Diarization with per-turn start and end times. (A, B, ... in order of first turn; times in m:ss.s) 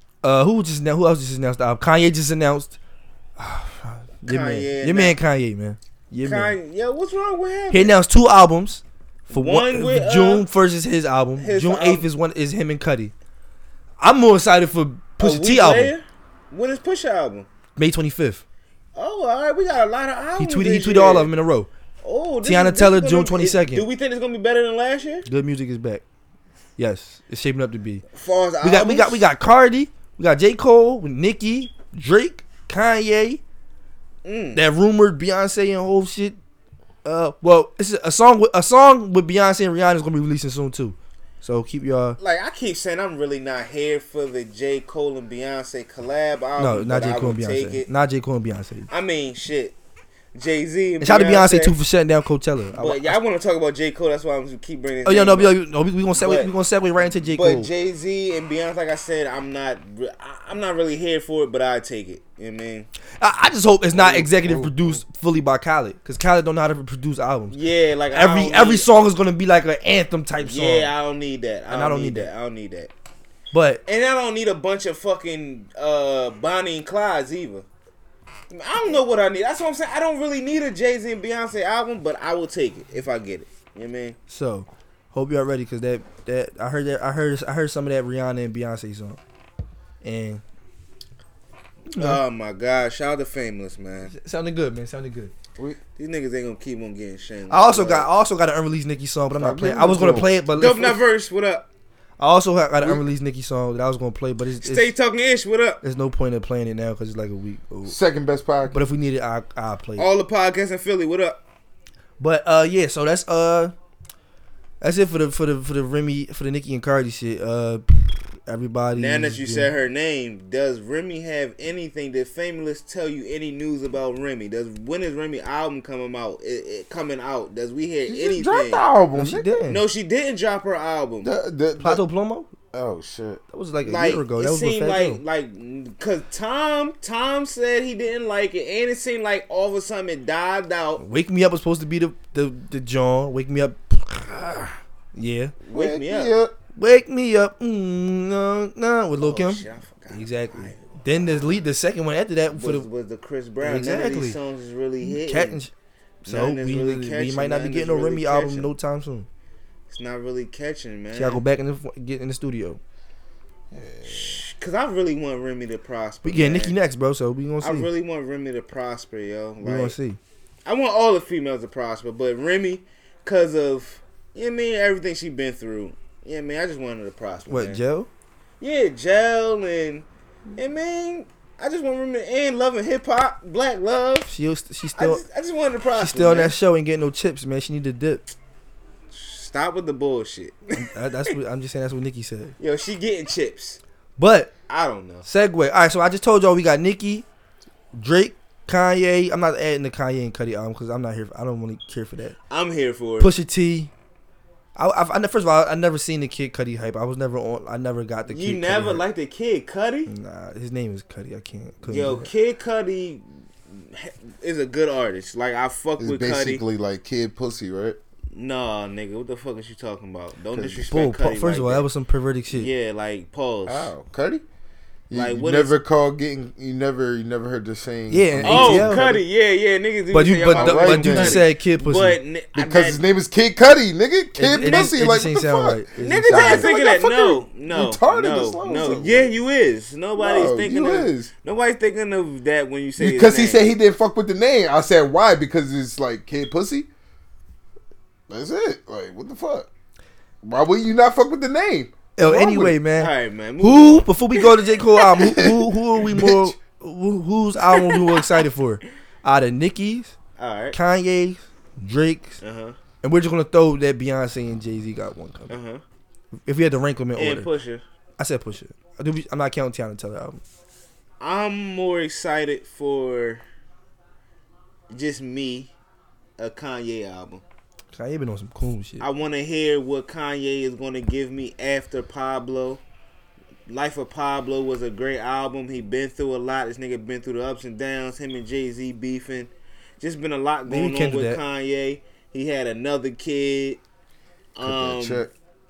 0:00.2-0:02.8 A
0:03.4-0:06.5 A
0:04.2-0:05.2 B
0:06.2-0:08.0 B
0:07.7-0:13.1 A
0:09.3-0:10.4 B
0:11.4-0:12.1 B
0:14.0-0:15.9 A
0:15.2-0:17.5 B
0:17.8-0:18.4 A
0:18.9-0:21.3 B
0:20.4-0:21.7 A
0:22.0-0:25.2 B
0:22.4-0:23.8 A
0:25.2-0:26.0 A
0:26.8-0:28.0 A
0:28.1-0:29.2 B
0:28.6-0:33.4 A
0:34.2-0:34.6 B
0:34.5-0:36.4 A
0:37.0-0:42.2 A
0:42.2-0:47.9 B
0:46.6-0:48.9 A
0:48.9-0:49.8 B
0:50.3-0:51.8 B
0:51.0-0:53.2 A
0:52.7-0:55.5 B
0:55.0-0:57.7 A
0:56.1-0:56.5 B
0:57.2-1:02.9 B
1:03.2-1:10.9 A
1:04.0-1:05.0 C
1:07.5-1:08.9 B
1:10.4-1:12.9 B
1:11.7-1:12.3 A
1:13.5-1:13.8 A
1:13.8-1:17.6 B
1:18.5-1:24.2 B
1:24.3-1:29.2 A
1:30.0-1:30.4 A
1:31.9-1:32.2 A
1:31.9-1:34.1 B
1:34.1-1:35.3 A
1:36.0-1:38.1 B
1:37.5-1:41.0 A
1:39.4-1:40.3 C
1:40.5-1:41.7 B
1:42.2-1:44.9 A
1:44.6-1:45.8 B
1:45.8-1:48.0 A
1:47.8-1:48.9 C
1:48.7-1:50.1 A
1:50.0-1:51.4 B
1:52.2-1:53.7 A
1:54.8-1:59.7 A
1:59.0-2:08.9 B
2:08.1-2:09.6 C
2:09.1-2:09.8 A
2:09.7-2:11.3 B
2:11.2-2:12.0 C
2:11.8-2:12.5 A
2:12.7-2:13.4 C
2:13.5-2:15.2 A
2:13.8-2:21.0 B
2:21.0-2:25.5 A
2:25.6-2:26.3 B
2:25.7-2:26.5 C
2:26.7-2:32.9 A
2:29.2-2:31.0 B
2:32.5-2:35.6 B
2:33.6-2:34.4 A
2:35.0-2:35.7 A
2:36.2-2:38.7 B
2:36.2-2:39.3 A
2:39.9-2:41.4 B
2:41.1-2:42.8 A
2:43.7-2:44.4 C
2:44.0-2:46.8 B
2:46.2-2:47.9 A
2:47.6-2:50.0 B
2:49.6-2:50.2 A
2:50.6-2:57.8 B
2:57.5-2:58.1 A
2:58.6-3:00.0 B
3:00.6-3:04.3 B
3:04.2-3:05.2 A
3:04.9-3:06.6 B
3:06.0-3:08.3 A
3:09.1-3:11.3 B
3:10.8-3:12.6 A
3:12.6-3:13.8 B
3:14.2-3:14.5 A
3:14.7-3:15.2 B
3:15.2-3:17.2 A
3:17.9-3:22.4 A
3:22.5-3:23.3 B
3:23.2-3:23.9 A
3:24.8-3:29.0 A
3:28.3-3:30.1 B
3:30.1-3:32.3 A
3:31.9-3:36.6 B
3:36.0-3:38.0 C
3:38.3-3:41.9 B
3:40.5-3:40.9 C
3:40.9-3:42.7 A
3:42.5-3:43.9 B
3:43.6-3:44.4 C
3:45.1-3:49.2 C
3:45.1-3:45.8 B
3:48.1-3:49.2 A
3:48.4-3:53.0 B
3:50.1-3:52.2 A
3:50.5-3:51.4 C
3:52.5-3:59.3 C
3:54.4-3:56.7 A
3:54.5-3:54.9 B
3:56.0-4:03.7 B
4:00.2-4:01.3 C
4:03.0-4:06.9 C
4:08.3-4:09.7 C
4:10.4-4:12.7 C
4:12.2-4:20.2 A
4:13.0-4:15.1 B
4:15.2-4:16.5 C
4:17.7-4:18.3 B
4:20.4-4:20.8 B
4:20.7-4:22.4 A
4:22.4-4:22.8 B
4:23.0-4:25.5 A
4:25.5-4:25.8 B
4:26.4-4:27.5 A
4:27.2-4:27.8 B
4:28.2-4:30.4 A
4:31.2-4:33.4 B
4:34.9-4:35.7 B
4:36.4-4:37.4 B
4:37.9-4:39.0 A
4:39.0-4:42.8 B
4:43.7-4:53.8 B
4:50.6-4:51.4 A
4:54.6-4:55.2 B
4:54.6-4:55.3 C